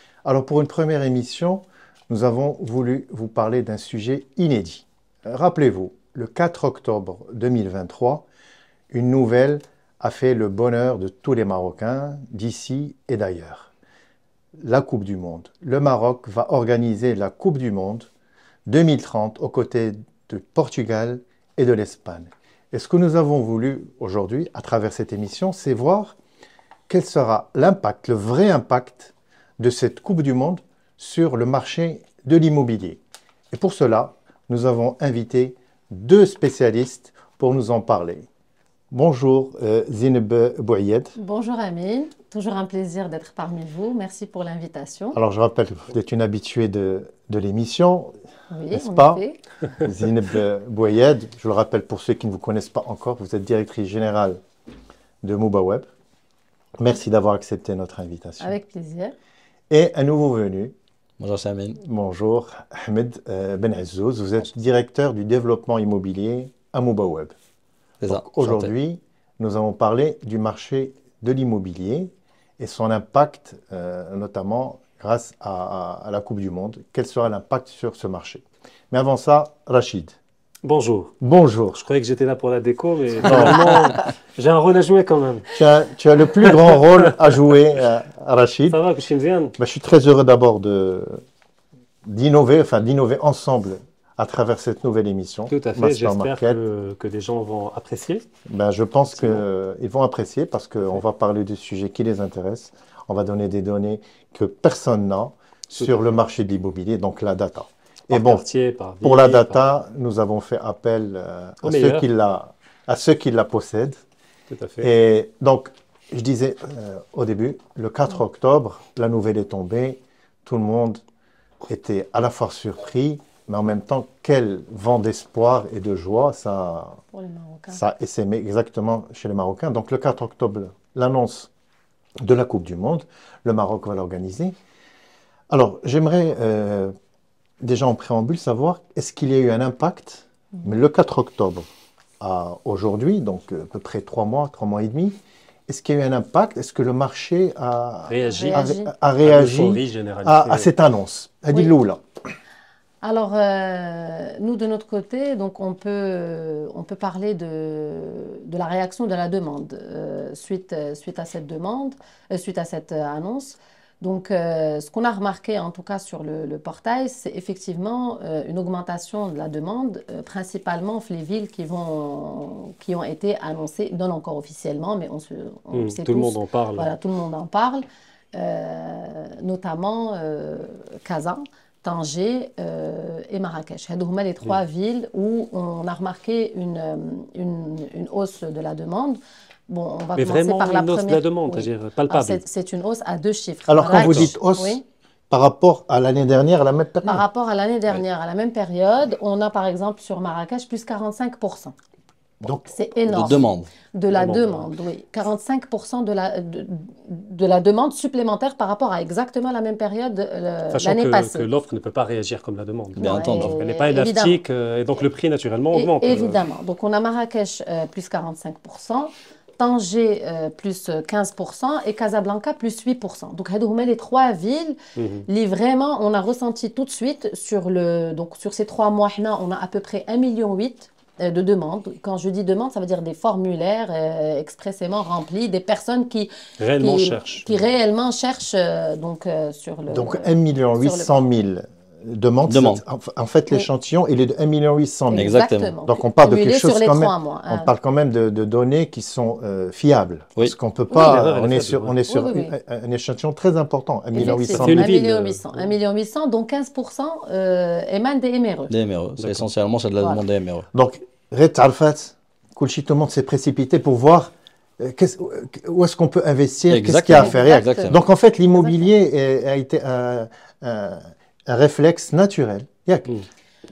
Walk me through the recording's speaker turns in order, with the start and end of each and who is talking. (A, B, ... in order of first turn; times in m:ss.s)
0:00.2-0:08.2 A
0:08.9-0:13.7 A
0:14.6-0:18.1 A
0:18.7-0:26.2 A
0:26.9-0:33.0 A
0:33.5-0:38.3 A
0:38.9-0:41.1 A
0:41.2-0:45.2 B
0:45.1-0:48.1 A
0:48.5-0:49.4 B
0:48.7-0:49.2 A
0:49.8-0:54.4 A
0:55.2-0:55.9 A
0:56.8-0:58.5 A
0:58.4-0:59.2 B
0:59.7-1:00.7 A
1:01.2-1:01.8 C
1:01.8-1:07.3 A
1:08.0-1:08.7 C
1:08.1-1:20.1 A
1:20.6-1:21.1 D
1:21.2-1:21.8 A
1:21.8-1:25.5 D
1:23.2-1:24.0 A
1:25.5-1:28.8 A
1:28.7-1:29.6 D
1:29.6-1:31.2 A
1:32.0-1:36.6 A
1:35.5-1:38.2 D
1:38.5-1:48.5 A
1:48.1-1:49.6 D
1:49.0-1:54.0 A
1:51.6-1:52.0 D
1:54.5-1:54.9 D
1:54.8-2:01.0 A
2:01.7-2:07.0 A
2:07.1-2:07.8 B
2:07.7-2:11.5 A
2:12.2-2:14.6 A
2:15.5-2:16.9 A
2:17.6-2:21.7 A
2:22.2-2:32.0 A
2:28.1-2:28.6 D
2:28.3-2:28.9 B
2:29.2-2:30.7 D
2:33.0-3:14.8 B
2:55.7-2:56.9 D
3:10.2-3:12.4 D
3:13.7-3:17.2 A
3:14.0-3:14.3 C
3:17.0-3:21.7 B
3:22.7-3:31.5 B
3:23.1-3:23.7 C
3:24.1-3:24.7 D
3:30.7-3:36.4 D
3:33.0-3:33.5 C
3:33.0-3:34.4 B
3:35.7-3:44.8 B
3:45.0-3:45.2 D
3:45.3-4:01.2 B
3:56.6-3:57.6 D
3:59.9-4:14.9 A
4:02.5-4:02.8 C
4:05.1-4:07.7 B
4:05.2-4:05.7 C
4:10.9-4:11.2 B
4:10.9-4:12.0 D
4:12.1-4:12.5 B
4:14.1-4:18.7 B
4:14.2-4:15.4 D
4:18.7-4:20.6 C
4:19.2-4:19.5 D
4:20.7-4:33.2 A
4:26.7-4:28.0 C
4:27.2-4:28.0 B
4:28.6-4:28.9 B